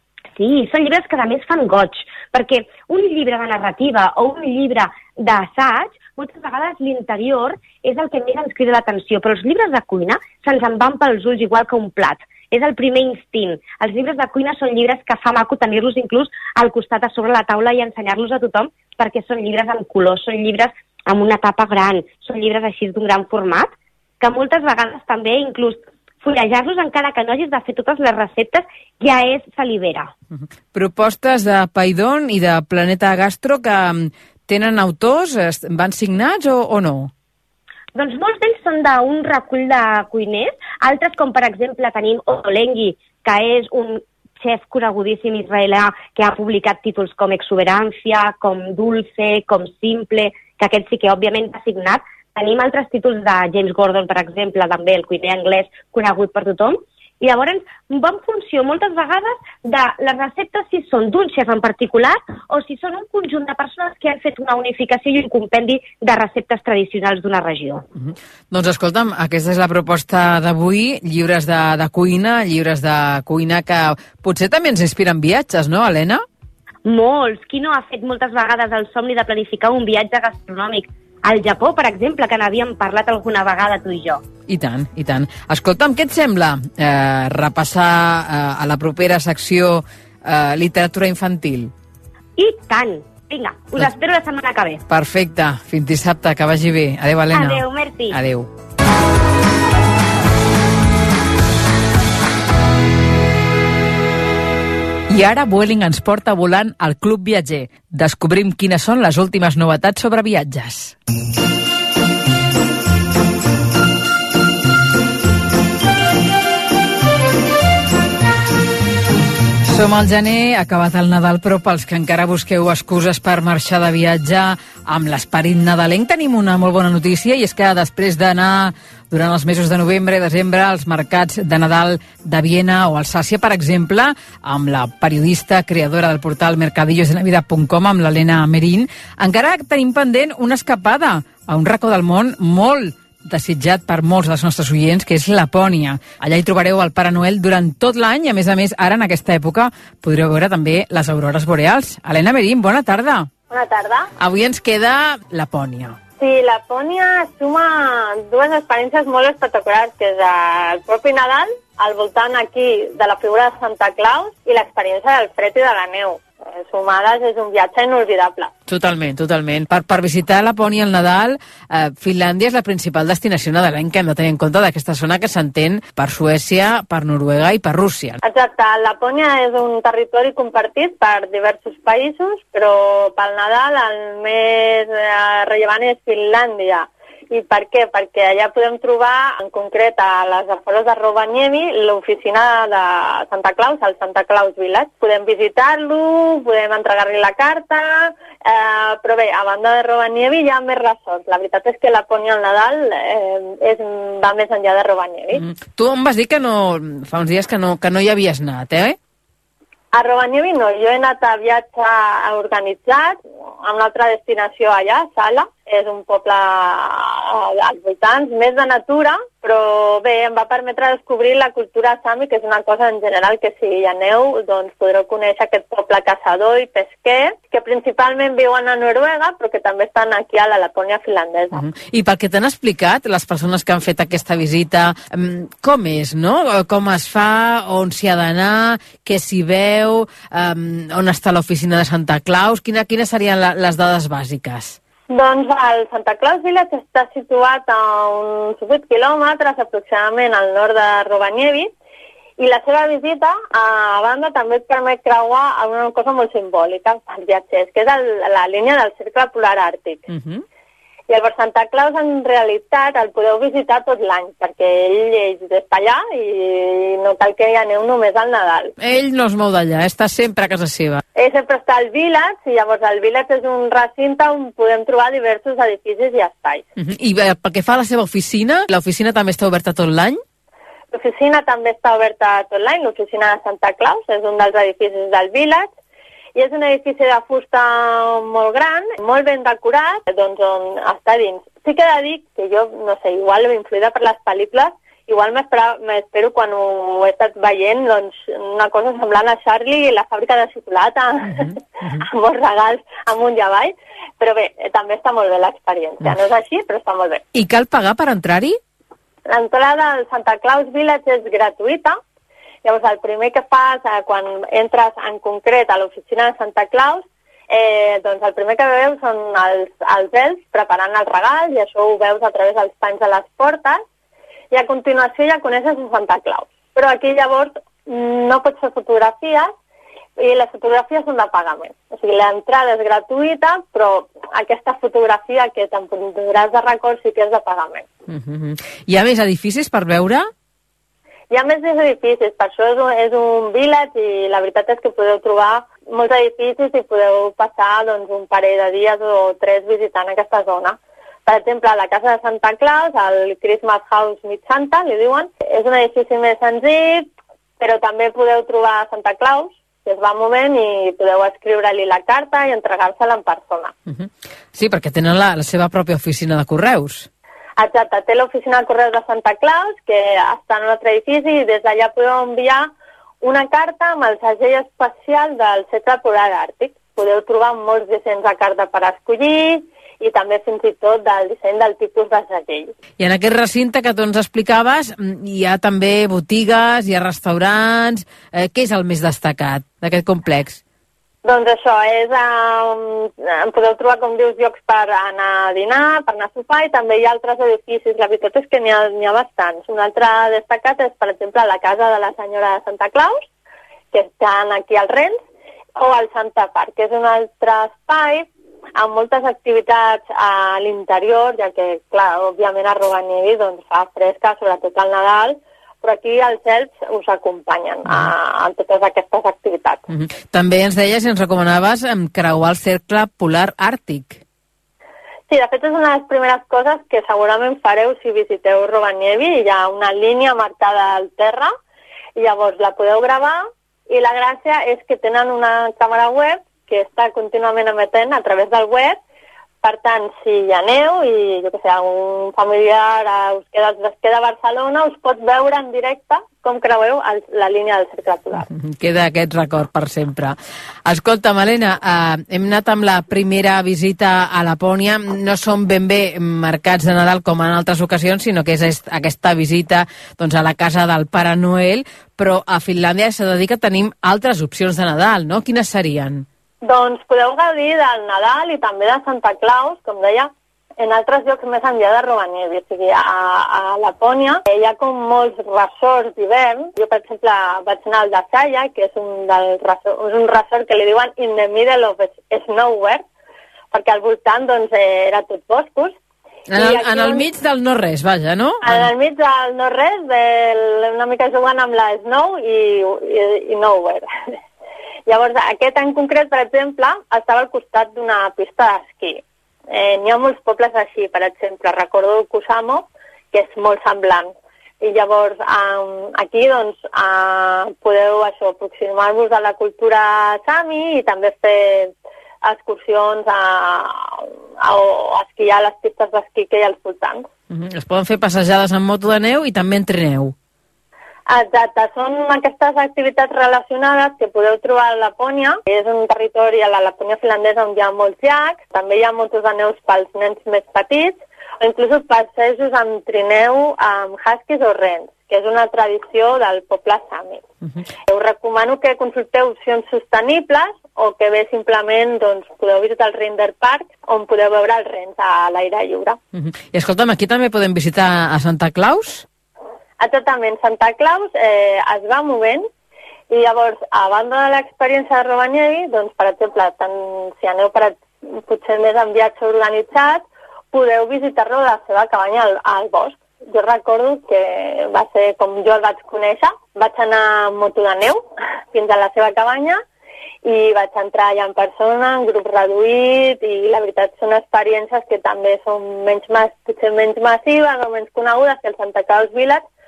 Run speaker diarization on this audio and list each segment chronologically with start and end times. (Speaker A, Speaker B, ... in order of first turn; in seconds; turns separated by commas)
Speaker A: 0.3-30.1, Speaker B: 30.7-37.1, Speaker A: 37.9-67.8, Speaker B: 68.0-76.2, Speaker A: 76.8-84.2, Speaker B: 84.5-91.7, Speaker A: 92.4-94.8, Speaker B: 94.9-98.5, Speaker A: 97.3-98.2, Speaker B: 105.1-111.0, Speaker B: 119.7-153.3, Speaker C: 153.5-154.1, Speaker B: 154.2-156.0, Speaker C: 156.2-168.5, Speaker B: 168.7-178.2, Speaker C: 178.2-205.4, Speaker B: 205.3-209.0, Speaker C: 209.9-231.6, Speaker B: 231.5-244.8, Speaker C: 245.1-251.7, Speaker C: 252.4-260.1, Speaker B: 260.1-260.4, Speaker C: 261.1-268.7, Speaker B: 268.8-271.0, Speaker C: 271.1-276.6, Speaker B: 276.8-280.2, Speaker C: 280.9-285.7, Speaker C: 286.3-307.2, Speaker B: 307.3-308.6, Speaker C: 309.3-312.0, Speaker C: 312.6-323.8, Speaker C: 324.5-329.5, Speaker C: 330.2-337.9, Speaker B: 338.1-340.3, Speaker C: 341.3-363.7, Speaker B: 363.9-367.1, Speaker C: 367.6-382.7, Speaker B: 383.0-390.6, Speaker C: 391.2-403.2, Speaker C: 403.9-405.2, Speaker C: 405.8-419.8, Speaker B: 419.9-424.2, Speaker C: 425.3-431.5, Speaker C: 432.1-439.0, Speaker C: 439.6-448.5, Speaker B: 448.5-466.2, Speaker C: 466.6-483.1, Speaker C: 483.7-486.0, Speaker B: 486.5-488.9, Speaker C: 486.5-487.3, Speaker C: 488.6-494.0, Speaker C: 495.1-517.3, Speaker B: 517.5-520.3, Speaker C: 521.3-537.4, Speaker C: 538.1-546.2, Speaker B: 546.3-549.2, Speaker C: 550.0-552.7, Speaker C: 553.3-569.8, Speaker C: 570.4-579.6